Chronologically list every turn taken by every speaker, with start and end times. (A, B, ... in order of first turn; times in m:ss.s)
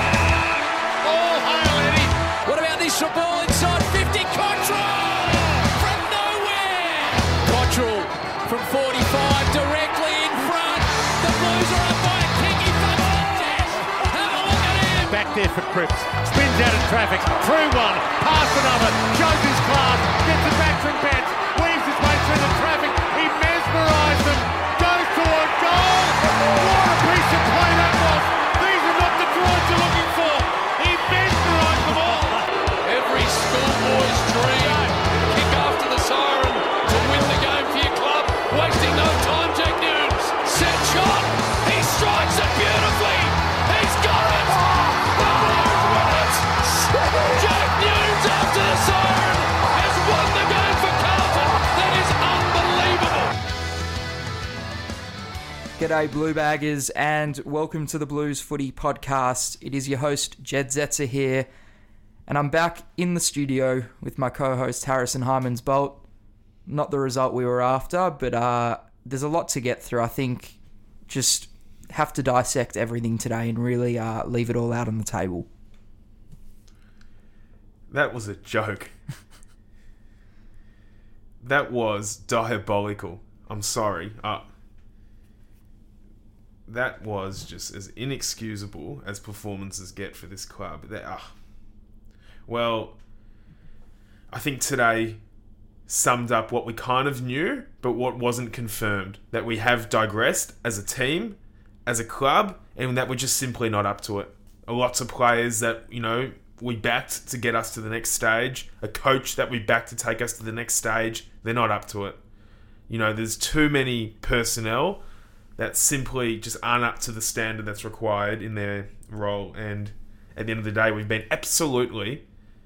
0:01.0-0:02.1 A
0:02.4-0:15.3 B
0:15.1-0:32.3 A
0:32.8-0:53.3 B
0:55.8-1:01.5 C
1:02.3-1:06.0 C
1:06.7-1:15.5 C
1:17.9-1:18.9 D
1:21.4-1:24.5 D
1:26.7-1:31.3 D
1:32.5-1:33.0 D
1:34.3-1:35.2 D
1:35.9-1:52.2 D
1:52.9-1:55.0 D
1:55.6-2:02.2 D